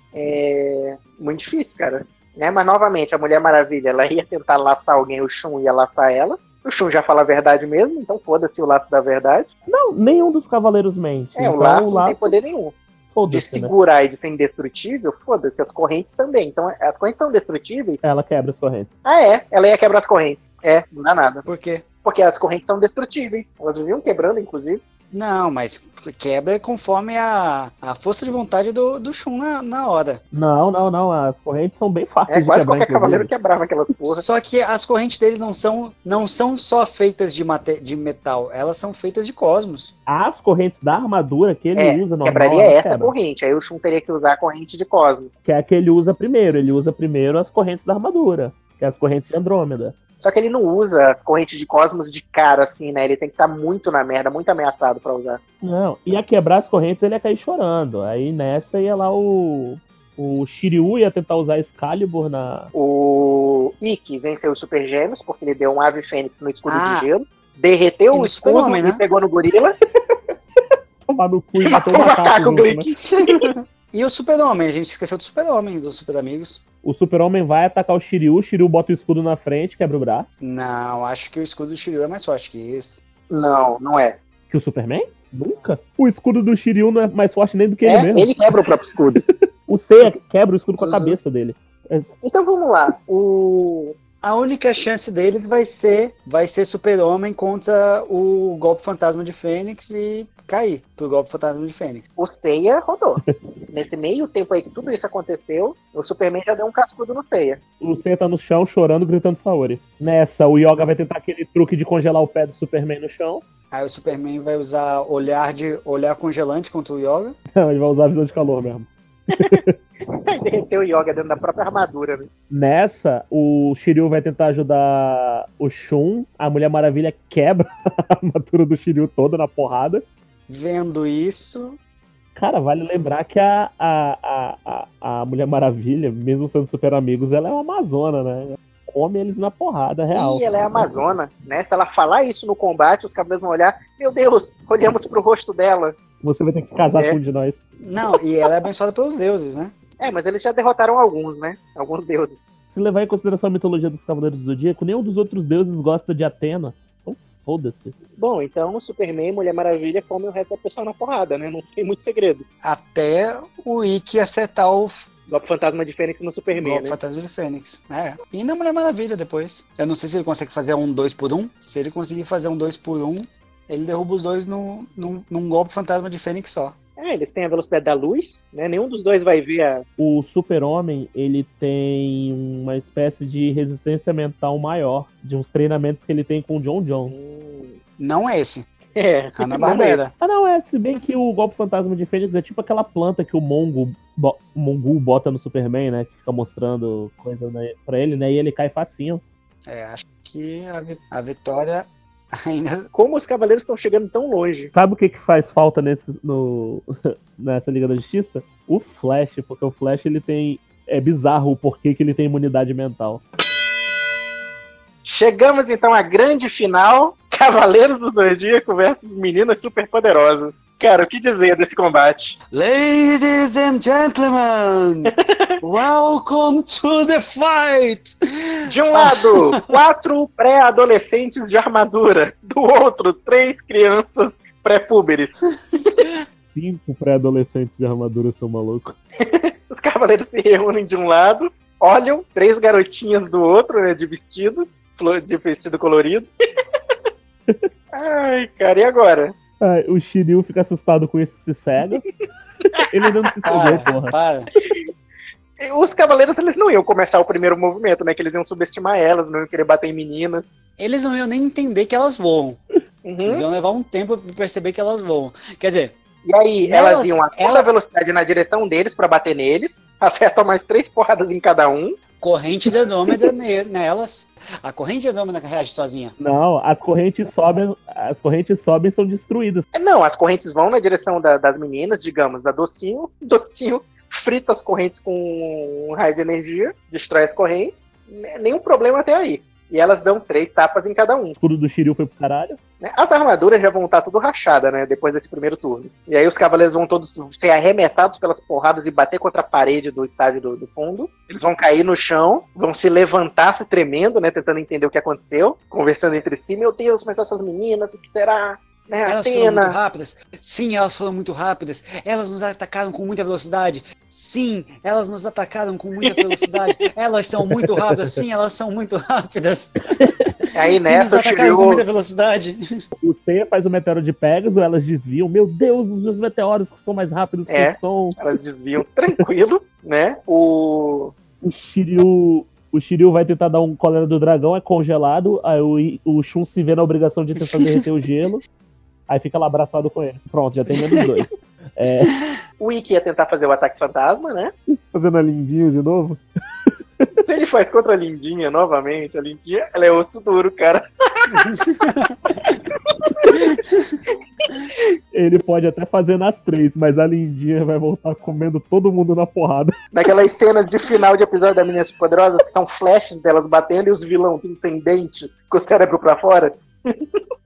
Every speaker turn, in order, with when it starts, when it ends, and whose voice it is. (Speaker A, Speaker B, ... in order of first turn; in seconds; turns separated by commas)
Speaker A: 0.1-9.5, Speaker B: 9.7-12.3, Speaker A: 11.4-12.8, Speaker B: 13.1-13.7, Speaker A: 13.3-18.0, Speaker B: 18.0-18.9, Speaker A: 19.1-21.4, Speaker C: 21.5-21.8, Speaker A: 22.0-24.8, Speaker C: 25.1-30.2, Speaker B: 30.3-33.3, Speaker A: 32.3-34.2, Speaker C: 34.1-39.9, Speaker B: 40.1-43.1, Speaker A: 41.8-45.3, Speaker B: 45.5-50.0, Speaker A: 50.2-55.4, Speaker B: 55.6-62.7, Speaker A: 62.8-69.8, Speaker C: 66.7-67.1, Speaker C: 68.1-69.0, Speaker B: 71.1-72.9, Speaker A: 71.6-73.5, Speaker C: 73.1-76.6, Speaker B: 76.8-80.3, Speaker C: 80.4-83.0, Speaker A: 83.3-84.2, Speaker B: 84.5-88.6, Speaker A: 87.9-89.2, Speaker B: 89.2-92.1, Speaker A: 90.8-91.2, Speaker A: 92.2-94.0, Speaker C: 94.2-102.0, Speaker A: 102.2-107.6, Speaker B: 107.8-113.4, Speaker C: 113.7-117.4, Speaker B: 117.6-119.7, Speaker A: 120.3-122.3, Speaker B: 122.5-130.0, Speaker C: 130.5-131.8, Speaker B: 132.4-140.4, Speaker A: 140.1-146.0, Speaker B: 146.2-147.6, Speaker C: 147.8-149.7, Speaker A: 150.0-152.5, Speaker B: 152.7-157.9, Speaker A: 158.2-162.4, Speaker C: 162.6-165.1, Speaker A: 165.3-167.0, Speaker C: 166.6-176.8, Speaker A: 177.0-179.8, Speaker B: 180.0-187.2, Speaker A: 187.1-187.8, Speaker C: 188.0-188.7, Speaker A: 189.0-190.1, Speaker C: 189.4-190.1, Speaker B: 190.2-199.2, Speaker C: 199.7-202.9, Speaker A: 202.9-204.7, Speaker B: 204.8-213.2, Speaker A: 215.1-222.4, Speaker C: 222.5-229.6, Speaker A: 228.7-236.1, Speaker B: 236.5-239.0, Speaker A: 239.2-246.3, Speaker A: 247.9-249.3, Speaker B: 249.6-252.0, Speaker A: 252.8-253.2, Speaker B: 252.8-254.2, Speaker C: 253.4-254.5, Speaker A: 255.6-260.6, Speaker C: 260.8-262.6, Speaker A: 263.0-263.4, Speaker C: 263.3-265.9, Speaker A: 266.2-272.0, Speaker C: 266.6-267.7, Speaker C: 272.2-276.1, Speaker B: 276.2-279.6, Speaker A: 279.7-291.4, Speaker B: 291.4-292.6, Speaker A: 292.8-309.8, Speaker C: 309.1-320.1, Speaker A: 316.0-316.6, Speaker A: 320.5-321.8, Speaker C: 320.9-322.6, Speaker B: 322.9-328.2, Speaker A: 327.5-331.1, Speaker B: 331.4-338.4, Speaker B: 339.1-342.1, Speaker C: 340.7-341.0, Speaker A: 342.6-344.5, Speaker B: 344.7-346.2, Speaker A: 347.2-351.5, Speaker C: 351.3-352.6, Speaker A: 352.9-353.6, Speaker C: 353.3-354.0, Speaker B: 355.1-359.7, Speaker A: 359.9-367.0